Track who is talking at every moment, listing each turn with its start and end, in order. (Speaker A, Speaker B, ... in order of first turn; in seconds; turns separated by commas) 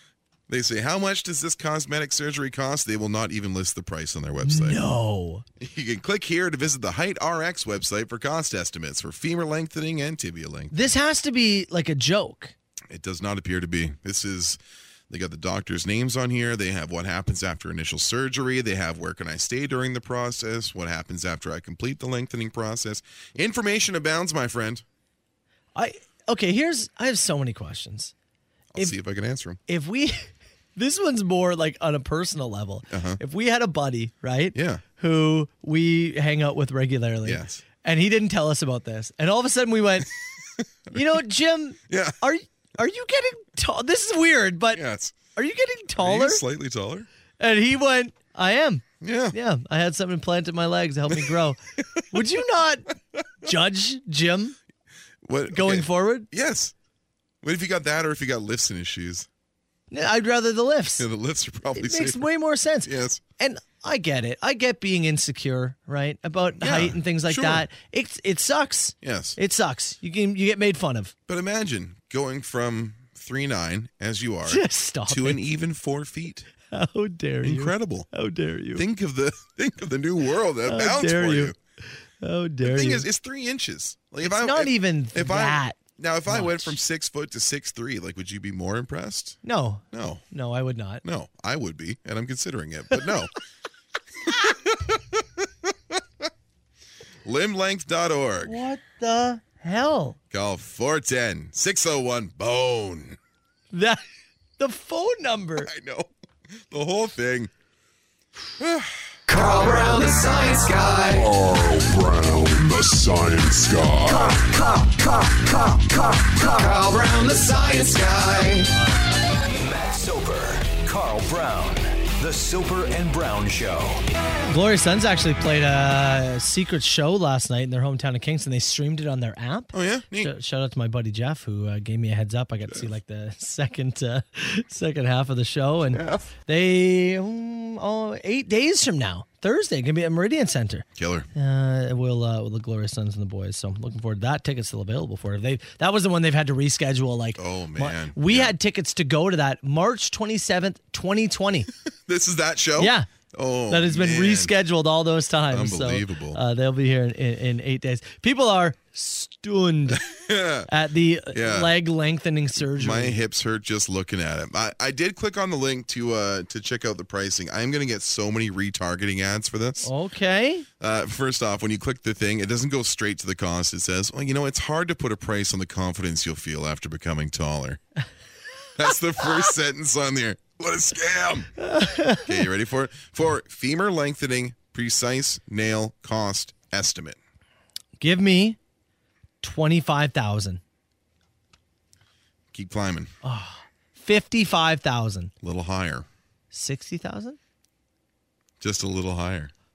Speaker A: 0.5-4.8, Speaker B: 4.4-5.5, Speaker A: 5.6-10.9, Speaker B: 10.7-12.6, Speaker A: 12.9-24.9, Speaker B: 25.8-28.1, Speaker A: 28.7-29.6, Speaker B: 29.7-40.1, Speaker A: 32.9-33.2, Speaker A: 34.5-34.8, Speaker A: 37.2-37.6, Speaker B: 40.9-44.8, Speaker A: 41.9-42.2, Speaker A: 44.7-45.2, Speaker B: 45.4-46.4, Speaker A: 46.0-47.1, Speaker B: 47.4-51.6, Speaker A: 49.0-49.4, Speaker B: 52.1-54.6, Speaker A: 55.2-56.7, Speaker B: 55.5-56.3, Speaker A: 57.4-59.3, Speaker B: 59.9-61.1, Speaker A: 61.0-62.3, Speaker B: 61.7-71.1, Speaker A: 62.8-63.2, Speaker A: 66.6-67.7, Speaker A: 69.0-69.4, Speaker A: 71.3-76.5, Speaker B: 74.5-75.4, Speaker B: 76.7-78.8, Speaker A: 77.4-78.1, Speaker A: 78.7-81.6, Speaker B: 80.7-83.1, Speaker A: 82.6-89.4, Speaker B: 84.2-86.8, Speaker B: 89.4-91.0, Speaker A: 89.9-90.2, Speaker A: 91.0-93.3, Speaker A: 94.3-96.3, Speaker A: 97.2-98.6, Speaker B: 98.4-100.2, Speaker A: 100.3-103.2, Speaker B: 103.7-104.0, Speaker B: 104.6-105.7, Speaker A: 105.6-107.5, Speaker A: 108.6-109.1, Speaker C: 109.3-111.3, Speaker D: 111.1-114.5, Speaker C: 114.7-118.7, Speaker B: 118.7-119.1, Speaker E: 119.5-124.0, Speaker B: 124.5-151.7, Speaker A: 129.7-130.3, Speaker A: 135.9-136.3, Speaker A: 141.0-141.3, Speaker A: 147.4-148.6, Speaker A: 151.9-154.5, Speaker B: 152.8-153.1, Speaker B: 153.7-160.0, Speaker A: 155.5-156.4, Speaker A: 159.9-160.7, Speaker B: 160.7-163.2, Speaker A: 161.3-161.7, Speaker A: 162.6-169.9, Speaker B: 169.8-170.7, Speaker A: 170.8-177.8, Speaker A: 178.8-181.5, Speaker B: 181.6-182.4, Speaker A: 182.2-187.2, Speaker B: 188.0-188.6, Speaker B: 189.4-190.6, Speaker A: 192.5-193.1, Speaker B: 193.2-195.3, Speaker A: 195.4-196.1, Speaker B: 196.5-197.4, Speaker A: 198.6-199.5